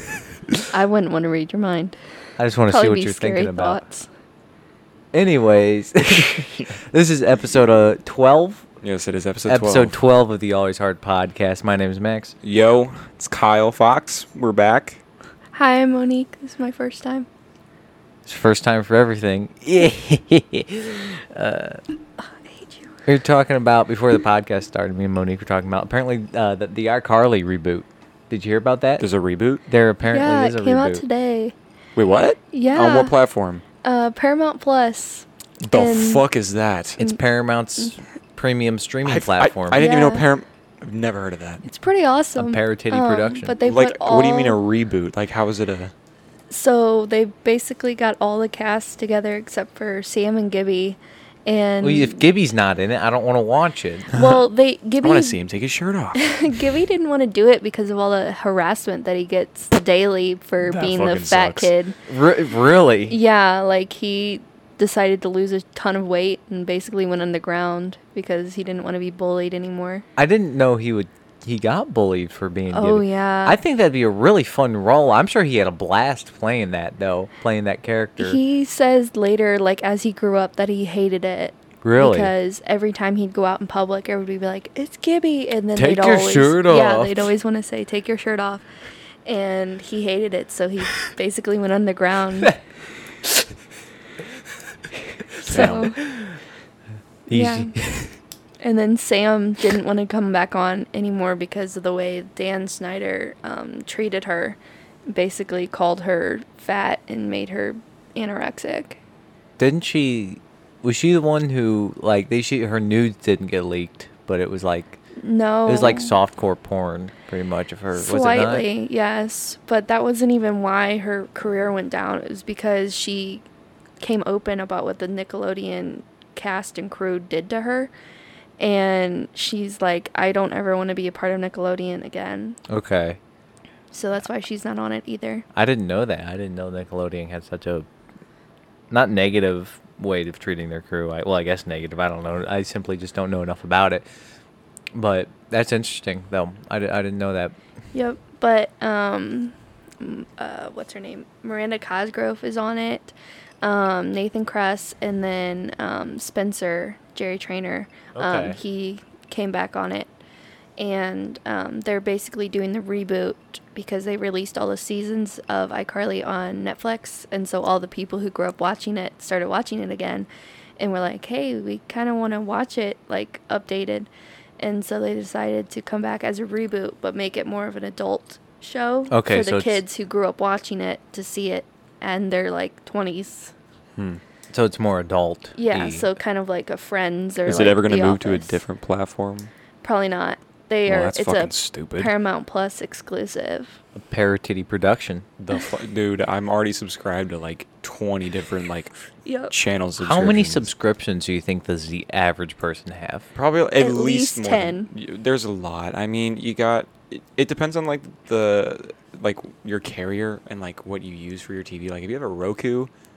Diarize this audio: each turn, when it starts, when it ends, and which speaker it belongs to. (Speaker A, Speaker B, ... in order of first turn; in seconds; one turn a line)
Speaker A: 0.7-2.0
Speaker B: 2.4-3.8
Speaker A: 2.7-4.1
Speaker B: 5.1-8.6
Speaker C: 8.8-9.9
Speaker B: 9.4-12.3
Speaker C: 12.4-15.0
Speaker A: 15.5-17.3
Speaker B: 18.2-21.8
Speaker A: 22.2-23.0
Speaker B: 23.1-29.1
Speaker C: 29.0-29.6
Speaker B: 29.7-31.0
Speaker A: 30.1-31.5
Speaker C: 31.9-33.6
Speaker A: 32.5-33.1
Speaker A: 33.8-36.2
Speaker C: 35.6-37.0
Speaker B: 37.0-39.9
Speaker C: 39.0-41.6
Speaker A: 39.7-40.2
Speaker A: 41.6-44.6
Speaker B: 42.4-43.6
Speaker C: 43.6-45.9
Speaker A: 46.5-52.2
Speaker B: 51.8-54.1
Speaker A: 54.1-55.4
Speaker C: 55.0-56.5
Speaker A: 56.1-62.0
Speaker C: 60.6-61.7
Speaker B: 62.1-63.2
Speaker A: 63.1-70.0
Speaker B: 70.2-78.4
Speaker A: 72.7-73.6
Speaker A: 78.2-88.6
Speaker B: 81.8-82.3
Speaker B: 85.8-87.3
Speaker A: 89.2-92.5
Speaker B: 95.4-96.4
Speaker A: 95.4-96.0
Speaker C: 95.5-95.9
Speaker B: 97.3-98.2
Speaker A: 97.3-97.7
Speaker A: 98.6-109.0
Speaker B: 109.6-115.0
Speaker A: 115.2-116.1
Speaker B: 115.7-118.7
Speaker A: 117.9-123.4
Speaker A: 124.0-127.9
Speaker A: 128.6-132.6
Speaker B: 132.7-133.2
Speaker A: 133.9-135.4
Speaker B: 135.5-137.9
Speaker B: 138.9-144.1
Speaker B: 144.9-147.6
Speaker A: 147.9-160.1
Speaker B: 158.2-158.6
Speaker A: 160.8-170.3
Speaker A: 170.8-183.5
Speaker B: 179.1-179.8
Speaker C: 184.0-184.2
Speaker B: 184.5-186.1
Speaker A: 185.6-188.6
Speaker C: 187.4-189.5
Speaker A: 189.8-193.8
Speaker C: 190.8-192.1
Speaker B: 193.9-195.2
Speaker C: 195.4-198.9
Speaker A: 199.2-199.5
Speaker C: 199.5-200.7
Speaker B: 200.0-203.3
Speaker C: 203.3-212.9
Speaker A: 203.8-204.9